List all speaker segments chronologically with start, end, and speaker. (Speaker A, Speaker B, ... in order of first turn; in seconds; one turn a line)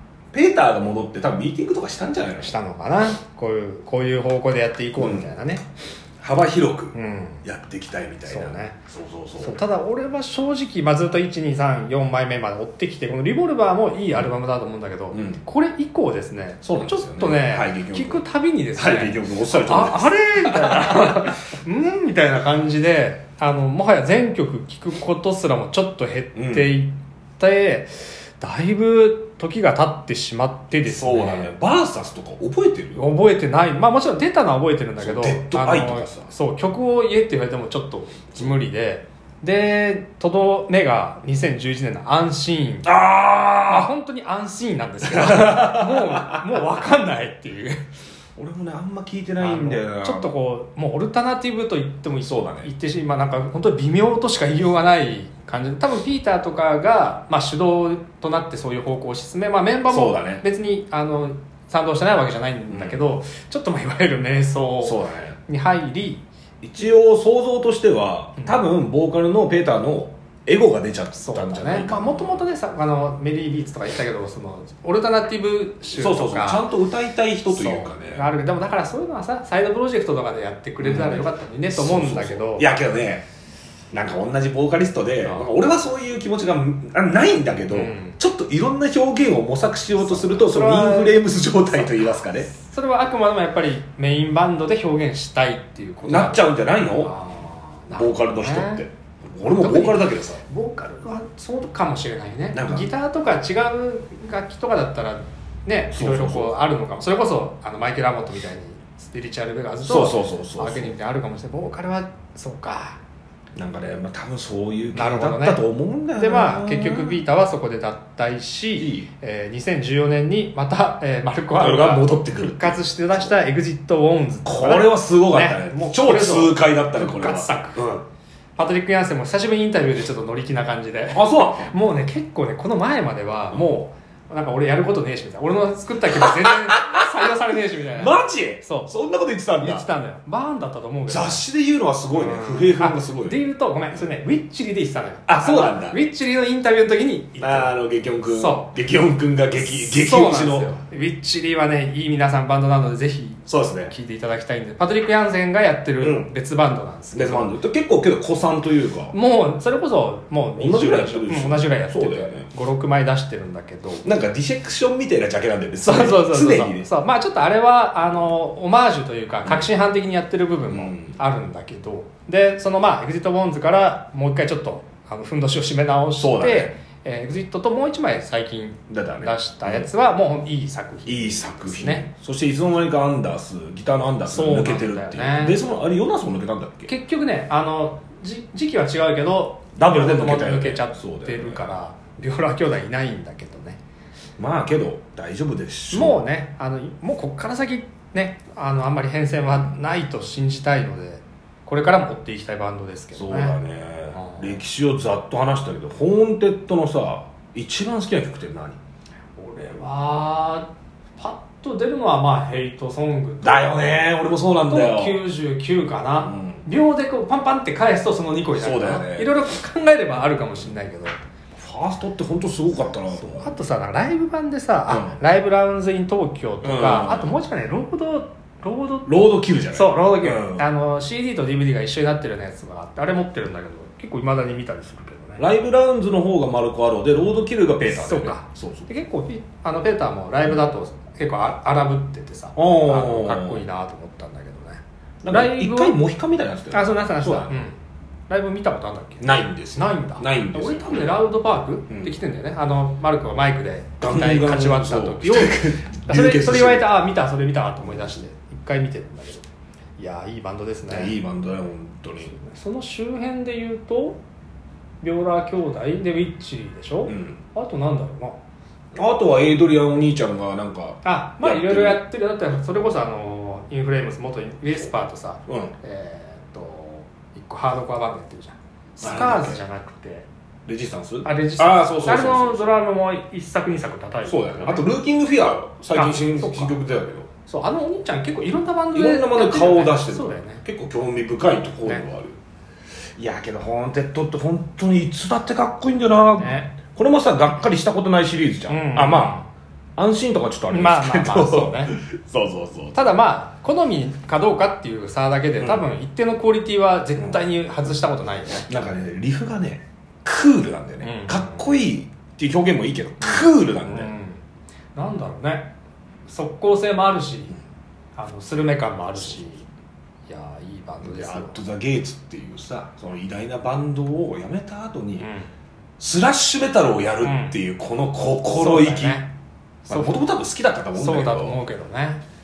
Speaker A: 0.3-2.5
Speaker B: 2.4-5.6
Speaker A: 5.0-5.3
Speaker A: 6.2-9.6
Speaker B: 6.9-7.4
Speaker B: 8.3-8.8
Speaker B: 9.4-31.5
Speaker A: 15.1-15.4
Speaker A: 16.6-18.2
Speaker A: 18.8-21.3
Speaker A: 26.4-26.7
Speaker A: 30.9-33.1
Speaker B: 33.0-42.9
Speaker A: 35.0-36.3
Speaker A: 42.9-43.9
Speaker B: 43.6-47.8
Speaker A: 45.0-46.4
Speaker A: 48.4-50.4
Speaker B: 49.4-66.2
Speaker A: 52.2-52.7
Speaker A: 59.9-60.5
Speaker A: 62.7-63.0
Speaker A: 64.8-65.4
Speaker A: 66.6-72.5
Speaker B: 71.2-76.7
Speaker A: 76.0-78.3
Speaker B: 77.5-82.7
Speaker A: 80.8-83.2
Speaker A: 83.9-92.5
Speaker B: 85.2-85.5
Speaker B: 87.7-88.2
Speaker B: 90.0-98.8
Speaker A: 96.0-97.1
Speaker A: 97.9-100.4
Speaker B: 99.4-113.0
Speaker A: 102.5-102.9
Speaker A: 105.9-106.6
Speaker A: 109.8-110.9
Speaker A: 113.6-117.2
Speaker B: 114.9-115.6
Speaker B: 116.2-127.8
Speaker A: 118.8-119.1
Speaker A: 121.6-123.4
Speaker A: 124.5-128.0
Speaker B: 128.6-138.9
Speaker A: 131.1-131.7
Speaker A: 133.5-133.8
Speaker A: 136.2-137.3
Speaker A: 137.9-139.9
Speaker B: 139.6-141.4
Speaker A: 141.1-143.4
Speaker B: 142.1-147.7
Speaker A: 145.3-146.0
Speaker A: 147.4-150.8
Speaker B: 148.3-148.7
Speaker B: 149.5-157.5
Speaker A: 153.5-153.9
Speaker A: 156.0-156.3
Speaker A: 157.1-159.2
Speaker B: 159.1-164.1
Speaker A: 160.6-162.5
Speaker A: 164.0-166.9
Speaker B: 165.8-182.1
Speaker A: 169.4-169.7
Speaker A: 170.7-171.2
Speaker A: 176.2-176.8
Speaker A: 178.9-179.9
Speaker A: 181.1-186.9
Speaker B: 184.3-185.6
Speaker B: 186.9-193.8
Speaker A: 189.8-191.7
Speaker A: 194.4-196.2
Speaker B: 195.9-203.6
Speaker A: 203.1-208.8
Speaker B: 204.1-204.6
Speaker B: 209.4-214.0
Speaker A: 213.4-215.2
Speaker B: 214.7-221.2
Speaker A: 216.2-216.6
Speaker A: 218.5-219.3
Speaker A: 221.6-223.6
Speaker B: 223.1-229.2
Speaker A: 224.9-225.2
Speaker A: 226.6-227.3
Speaker A: 229.1-230.7
Speaker B: 229.7-235.4
Speaker A: 235.4-238.9
Speaker B: 237.9-246.0
Speaker A: 242.6-243.7
Speaker A: 245.2-247.7
Speaker B: 246.7-247.8
Speaker B: 248.3-259.5
Speaker A: 249.2-251.2
Speaker A: 251.9-252.2
Speaker A: 254.0-257.0
Speaker B: 260.0-261.1
Speaker A: 260.9-262.3
Speaker B: 262.2-264.2
Speaker B: 265.0-268.4
Speaker A: 267.1-267.4
Speaker A: 268.9-272.0
Speaker B: 271.0-280.3
Speaker A: 275.5-275.7
Speaker A: 279.0-279.6
Speaker A: 280.7-282.8
Speaker B: 281.2-284.9
Speaker A: 284.3-287.3
Speaker B: 285.9-286.8
Speaker B: 287.4-290.6
Speaker A: 288.9-292.4
Speaker A: 293.2-299.4
Speaker B: 296.4-296.7
Speaker B: 298.7-299.5
Speaker A: 300.0-303.0
Speaker B: 300.7-301.9
Speaker B: 302.9-308.7
Speaker A: 305.6-305.9
Speaker A: 308.7-314.1
Speaker B: 311.0-311.7
Speaker B: 313.2-314.4
Speaker B: 314.9-315.7
Speaker B: 316.3-317.6
Speaker B: 318.2-319.6
Speaker A: 319.2-319.5
Speaker B: 320.3-321.6
Speaker A: 321.0-325.3
Speaker B: 325.2-325.5
Speaker A: 326.0-329.2
Speaker B: 327.2-327.6
Speaker B: 328.5-329.3
Speaker B: 329.9-330.3
Speaker A: 329.9-331.6
Speaker B: 330.9-332.2